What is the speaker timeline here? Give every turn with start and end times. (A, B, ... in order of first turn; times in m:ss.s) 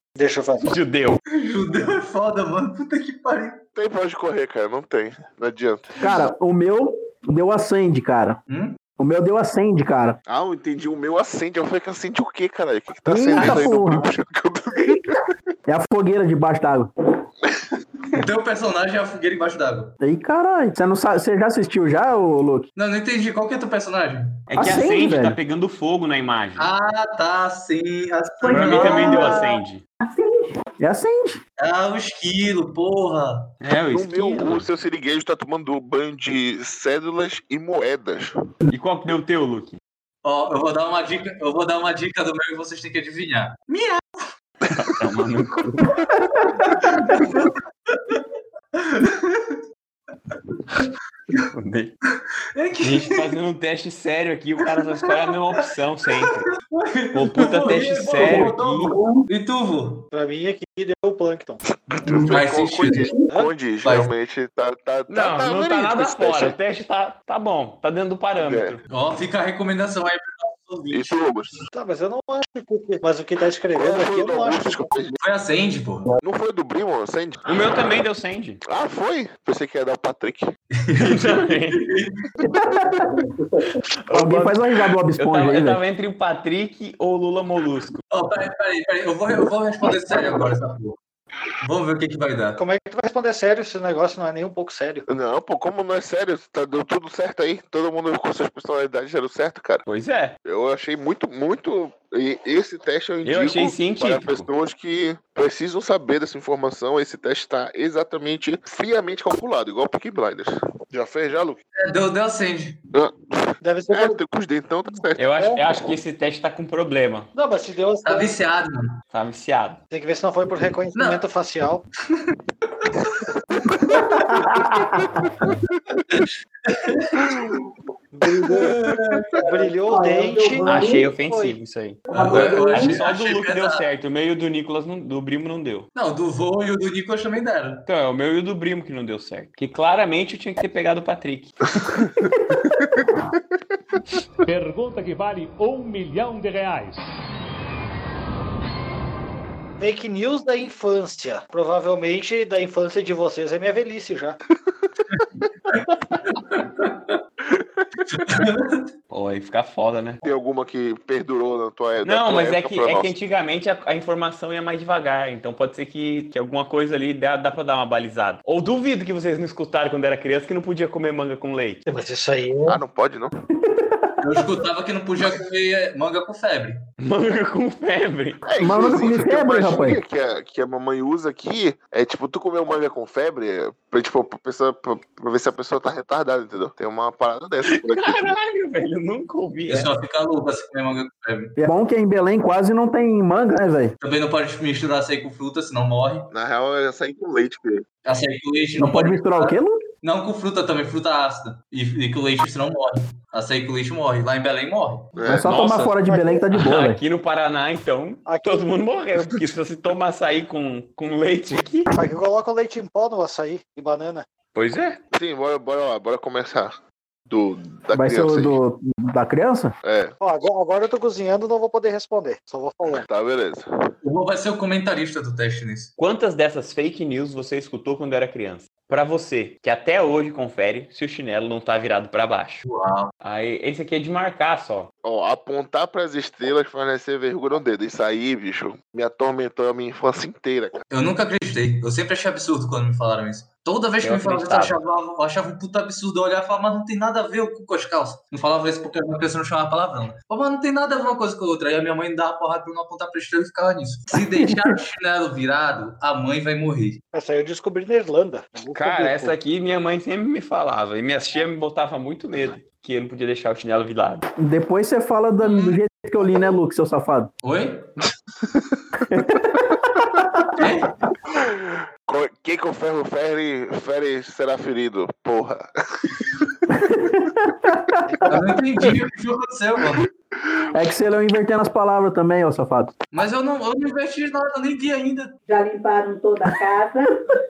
0:00.2-0:00.8 A
0:00.6-0:01.2 B
0:01.4-0:03.6 C
0:03.8-0:06.0 D
0:06.0-0:08.4 E
0:08.5-0:08.8 C
0:09.0-0:10.2 E
0:10.3-0:15.3 D
0:13.1-0:14.1 E
0:13.3-0:13.7 C
0:15.7-0:16.9 E
0:18.1-0:20.0 C
0:20.0-0:22.7 E
0:22.8-0:24.4 C
0:24.5-0:26.7 B
0:24.6-0:25.4 E
0:26.6-0:29.5 C
0:28.4-0:30.6 F
0:28.5-0:29.8 B
0:30.8-0:31.4 E
0:31.6-0:33.5 C
0:33.6-0:34.7 B
0:33.9-0:38.4 D
0:38.7-0:39.8 B
0:40.2-0:44.2 C
0:44.7-0:46.0 B
0:46.7-0:49.6 C
0:50.3-0:51.4 C
0:51.3-0:51.9 B
0:52.6-0:53.3 C
0:52.8-0:56.5 B
0:55.0-0:55.3 C
0:56.2-1:00.1 C
0:57.1-0:59.0 B
0:58.9-0:59.2 F
1:00.1-1:01.6 A
1:01.9-1:06.6 D
1:02.1-1:03.1 C
1:03.8-1:04.1 C
1:05.1-1:08.8 B
1:08.4-1:08.8 D
1:08.9-1:11.3 C
1:10.9-1:11.6 D
1:11.7-1:14.9 A
1:13.8-1:15.2 D
1:15.2-1:16.1 C
1:16.2-1:17.9 D
1:17.5-1:18.6 B
1:18.7-1:20.5 D
1:20.8-1:22.2 C
1:21.0-1:21.9 B
1:22.4-1:25.8 E
1:24.1-1:24.6 B
1:25.2-1:28.0 B
1:28.1-1:31.0 C
1:31.6-1:32.6 C
1:32.6-1:35.1 A
1:35.1-1:39.9 D
1:39.9-1:40.4 B
1:40.4-1:51.6 D
1:43.2-1:44.5 B
1:51.8-1:52.8 C
1:52.9-1:55.2 D
1:53.6-1:54.2 A
1:55.2-1:57.3 B
1:55.4-1:55.6 A
1:57.4-1:58.3 A
1:58.0-1:59.0 C
1:59.1-1:59.8 B
1:59.9-2:01.8 A
2:01.0-2:01.2 C
2:02.1-2:03.3 C
2:04.0-2:04.4 C
2:04.2-2:05.0 E
2:06.1-2:07.6 C
2:08.1-2:08.8 A
2:08.5-2:09.7 C
2:09.3-2:11.6 A
2:09.9-2:11.1 F
2:10.6-2:15.9 B
2:12.1-2:13.8 C
2:12.2-2:12.9 E
2:12.3-2:12.8 F
2:16.0-2:17.8 C
2:17.9-2:21.5 B
2:22.8-2:23.2 D
2:24.4-2:27.0 G
2:29.8-2:34.4 A
2:35.1-2:37.2 C
2:37.4-2:38.3 D
2:38.1-2:38.9 C
2:39.1-2:40.2 B
2:40.2-2:43.1 D
2:42.0-2:51.8 B
2:51.9-2:52.8 A
2:52.7-2:53.4 D
2:53.7-2:54.4 E
2:54.2-2:56.8 C
2:57.0-2:58.4 B
2:58.4-3:08.3 D
2:58.6-3:00.0 E
3:07.6-3:09.9 B
3:09.7-3:11.5 C
3:11.6-3:13.9 E
3:14.0-3:16.3 C
3:16.3-3:17.8 D
3:18.0-3:25.1 C
3:18.8-3:19.8 E
3:25.2-3:25.5 D
3:25.2-3:27.0 E
3:25.4-3:26.0 B
3:26.0-3:26.4 A
3:26.5-3:31.9 B
3:28.2-3:28.7 A
3:31.9-3:34.2 A
3:34.5-3:35.0 B
3:35.1-3:36.8 D
3:37.3-3:38.6 D
3:37.9-3:39.8 E
3:39.8-3:40.1 D
3:40.2-3:43.1 A
3:43.0-3:43.7 D
3:44.0-3:45.9 C
3:46.0-3:52.6 B
3:52.6-3:53.1 C
3:53.2-3:54.9 B
3:55.0-4:00.8 D
4:00.9-4:17.0 C
4:04.0-4:04.8 B
4:14.4-4:14.7 E
4:17.1-4:19.4 A
4:18.8-4:24.2 B
4:24.4-4:27.3 E
4:25.4-4:25.8 C
4:27.4-4:28.1 C
4:29.1-4:30.7 E
4:30.6-4:31.0 C
4:31.3-4:37.1 D
4:36.7-4:38.4 E
4:38.1-4:38.4 D
4:38.3-4:40.1 C
4:40.7-4:42.9 E
4:43.1-4:45.4 C
4:45.5-4:47.4 F